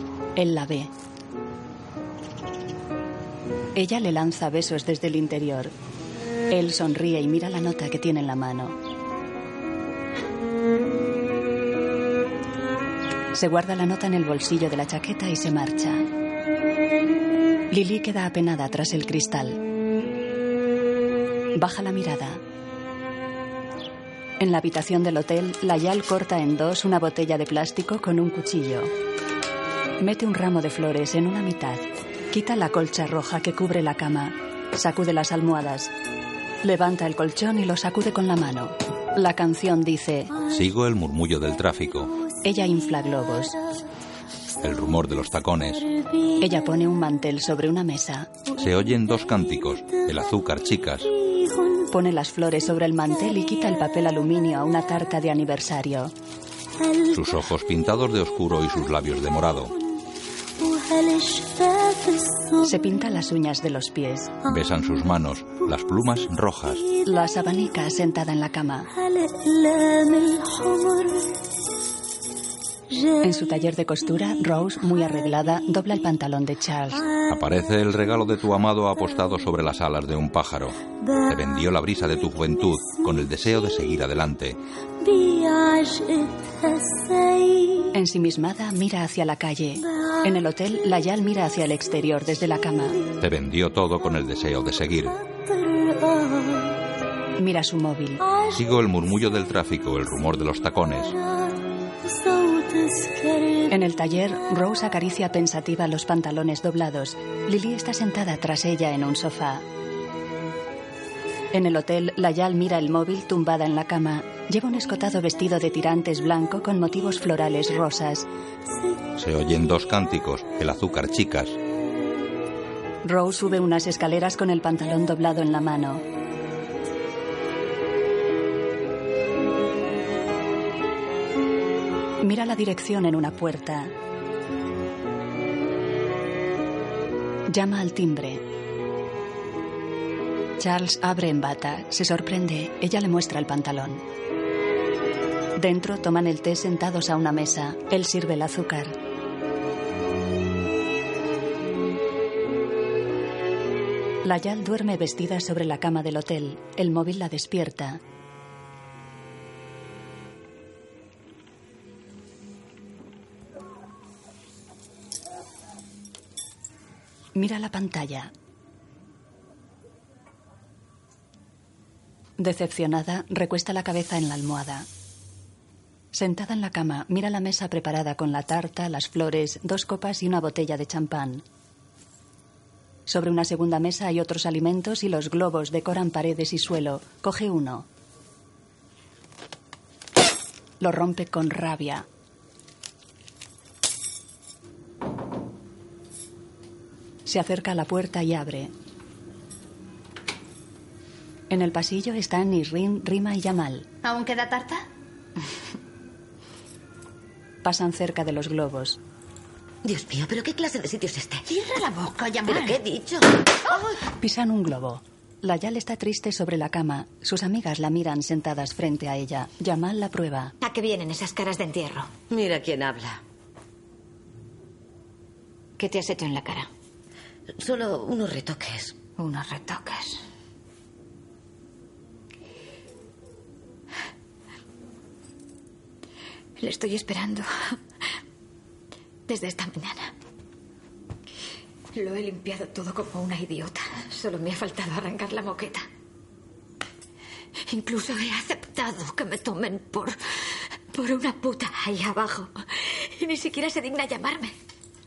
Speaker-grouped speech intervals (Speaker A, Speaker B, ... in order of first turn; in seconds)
Speaker A: 0.4-0.9, 3.7-5.7, 6.5-8.8, 13.3-16.1, 17.7-19.6, 21.6-22.4, 24.4-28.9, 30.0-35.9, 36.6-40.4, 42.4-43.6, 46.4-48.3, 51.9-56.1, 62.6-64.4, 67.0-68.9, 73.2-77.1, 87.9-93.0, 97.4-98.2, 103.7-109.6, 111.5-118.3, 123.0-126.0, 132.2-133.9, 137.5-138.4, 140.6-144.0, 145.6-148.9, 154.2-158.0, 167.3-168.3, 172.4-174.9, 176.1-181.4, 183.1-187.9, 190.8-192.1, 197.2-198.7, 201.5-203.9, 207.6-209.0, 214.2-220.5
Speaker B: 40.4-42.1, 44.6-45.9, 48.5-51.1, 57.1-59.8, 64.4-66.9, 77.2-84.6, 93.2-95.2, 98.5-101.2, 119.2-121.6
Speaker C: 204.0-204.8, 211.5-212.8
Speaker D: 209.8-211.4, 212.4-213.9, 222.3-223.2, 227.6-229.0
Speaker E: 220.6-222.1, 225.8-226.7, 229.2-230.2, 236.6-237.8, 239.3-240.1, 241.9-245.9, 247.7-254.5